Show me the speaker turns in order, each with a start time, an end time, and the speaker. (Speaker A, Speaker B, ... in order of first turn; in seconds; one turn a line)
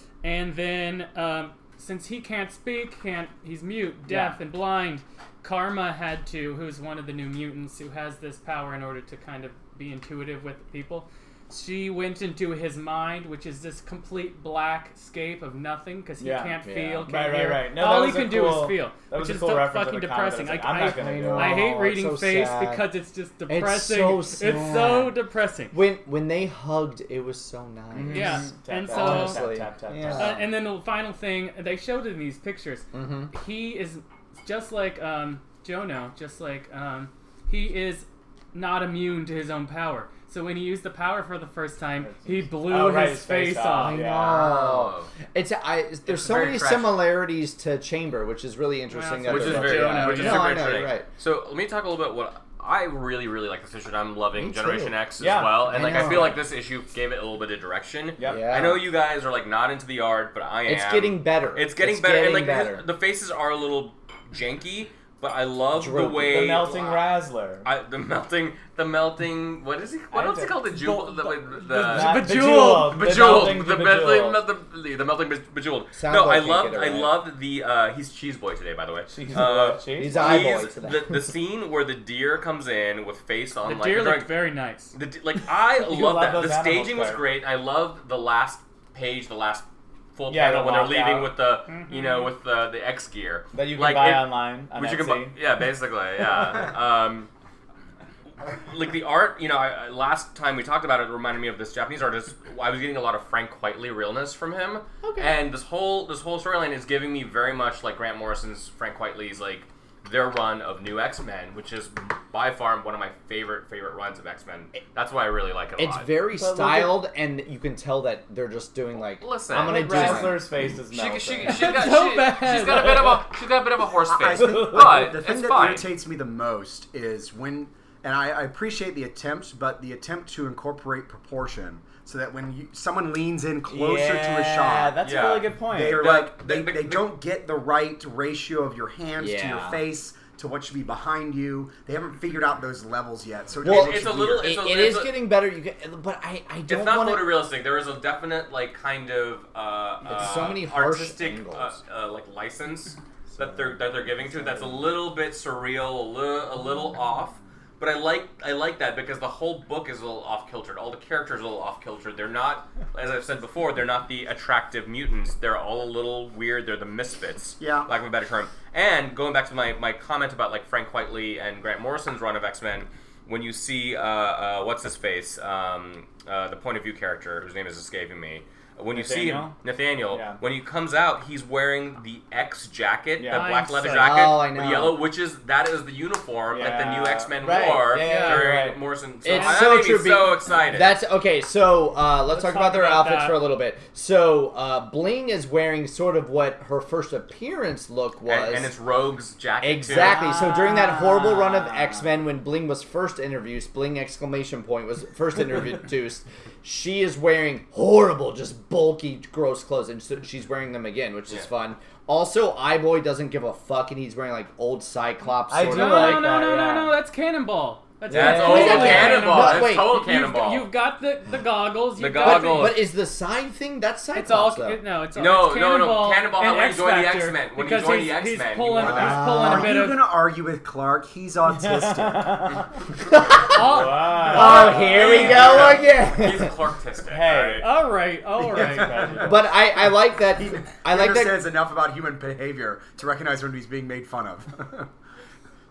Speaker A: 0.2-25.7
Speaker B: 4.1-4.4
Speaker B: 16.2-21.7
Speaker C: 16.6-17.1
Speaker C: 20.8-22.9
Speaker C: 23.5-25.1
Speaker C: 25.7-30.5
Speaker B: 27.9-30.5
Speaker A: 28.1-29.4
Speaker A: 30.1-44.0
Speaker C: 32.9-33.3
Speaker B: 42.0-44.4
Speaker C: 43.7-51.1
Speaker D: 44.2-45.1
Speaker D: 46.1-47.0
Speaker A: 48.9-50.7
Speaker D: 49.2-67.0
Speaker B: 50.0-50.2
Speaker C: 54.4-55.0
Speaker B: 55.2-56.3
Speaker C: 55.6-56.4
Speaker B: 58.2-58.5
Speaker C: 58.2-58.8
Speaker C: 60.6-62.9
Speaker C: 65.7-66.6
Speaker B: 66.3-67.7
Speaker D: 67.6-72.3
Speaker B: 70.1-70.5
Speaker A: 70.7-73.5
Speaker B: 71.8-74.4
Speaker D: 72.8-84.3
Speaker C: 75.9-77.1
Speaker B: 79.1-80.5
Speaker C: 80.0-81.3
Speaker A: 83.6-84.9
Speaker D: 84.9-97.3
Speaker B: 85.8-87.2
Speaker B: 90.3-91.3
Speaker A: 91.7-92.3
Speaker B: 93.5-95.3
Speaker D: 98.5-116.1
Speaker C: 105.0-105.3
Speaker C: 115.8-120.4
Speaker B: 116.3-117.0
Speaker D: 119.2-125.9
Speaker B: 119.5-121.8
Speaker A: 121.4-123.2
Speaker E: 124.1-135.0
Speaker B: 124.4-125.0
Speaker B: 133.7-136.1
Speaker D: 135.0-137.1
Speaker E: 135.7-144.5
Speaker C: 139.2-139.8
Speaker C: 143.6-147.4
Speaker D: 143.6-145.1
Speaker D: 146.7-191.0
Speaker C: 150.1-151.8
Speaker B: 153.3-154.8
Speaker E: 167.6-167.9
Speaker B: 178.9-179.6
Speaker B: 180.1-180.4
Speaker B: 183.2-183.5
Speaker A: 183.3-184.1
Speaker C: 183.8-185.0
Speaker B: 186.5-188.8
Speaker A: 188.0-188.4
Speaker C: 189.2-198.7
Speaker A: 192.3-193.4
Speaker D: 198.2-200.2
Speaker C: 199.6-216.3
Speaker B: 199.9-202.1
Speaker B: 215.5-216.9
Speaker A: 215.6-222.8
Speaker B: 218.1-219.1
Speaker C: 218.1-220.0
Speaker D: 218.1-220.7
Speaker D: 221.9-222.8
Speaker C: 222.2-224.8
Speaker A: 224.1-230.1
Speaker D: 225.1-229.2
Speaker E: 228.8-232.6
Speaker C: 228.8-229.7
Speaker B: 231.5-232.7
Speaker C: 233.1-233.7
Speaker A: 233.4-235.7
Speaker B: 233.6-235.7
Speaker C: 234.2-236.5
Speaker D: 234.9-237.7
Speaker B: 237.1-237.7
Speaker A: 237.6-239.2
Speaker B: 238.4-239.4
Speaker E: 238.5-239.3
Speaker C: 239.2-241.4
Speaker E: 239.9-244.9